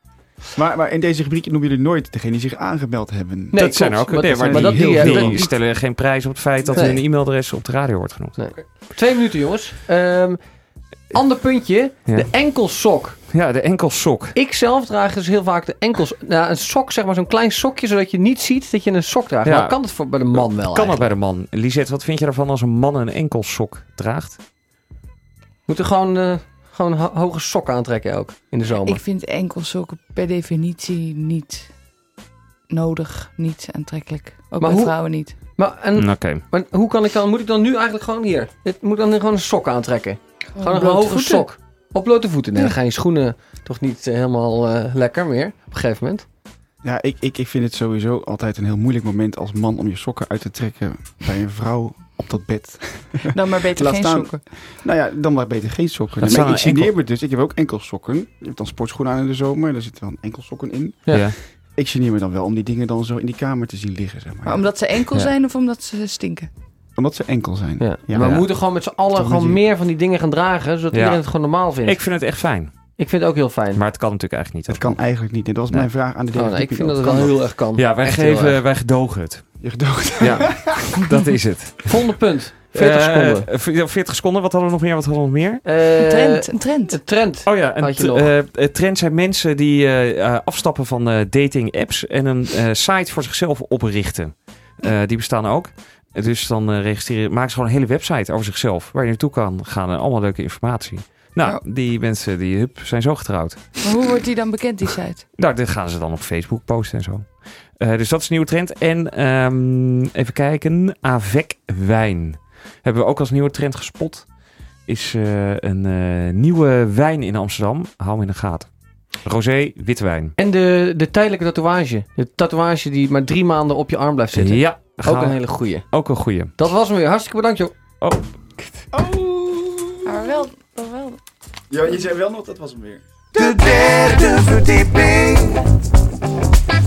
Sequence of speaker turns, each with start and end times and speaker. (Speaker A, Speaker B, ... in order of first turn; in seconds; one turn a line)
Speaker A: 0.6-5.5
Speaker B: 3.5-5.6
Speaker C: 3.6-8.7
Speaker B: 6.7-7.0
Speaker B: 8.4-10.5
Speaker B: 11.1-13.2
Speaker C: 12.1-12.3
Speaker C: 13.3-14.4
Speaker B: 14.3-21.1
Speaker C: 19.4-24.4
Speaker B: 25.7-29.0
Speaker D: 28.8-31.7
Speaker D: 32.7-35.4
Speaker B: 34.6-46.3
Speaker C: 36.0-36.4
Speaker D: 40.5-41.5
Speaker A: 46.8-64.8
Speaker D: 53.3-54.4
Speaker C: 56.2-56.9
Speaker C: 61.1-61.4
Speaker D: 64.5-66.5
Speaker A: 67.0-68.5
Speaker B: 67.8-72.2
Speaker C: 68.2-68.5
Speaker A: 69.1-69.6
Speaker C: 70.9-71.2
Speaker C: 71.8-72.9
Speaker B: 73.0-73.8
Speaker C: 73.7-75.0
Speaker A: 74.7-77.5
Speaker B: 76.3-78.6
Speaker C: 77.7-79.6
Speaker A: 79.6-81.0
Speaker C: 80.2-85.6
Speaker B: 81.8-83.5
Speaker B: 85.6-88.3
Speaker D: 86.0-87.0
Speaker C: 87.4-103.9
Speaker D: 103.8-105.2
Speaker C: 105.4-114.3
Speaker C: 114.8-118.7
Speaker C: 119.2-120.3
Speaker B: 120.4-127.8
Speaker C: 124.3-126.5
Speaker C: 128.0-128.9
Speaker A: 128.9-130.4
Speaker D: 130.1-131.2
Speaker A: 131.7-133.0
Speaker E: 133.3-135.6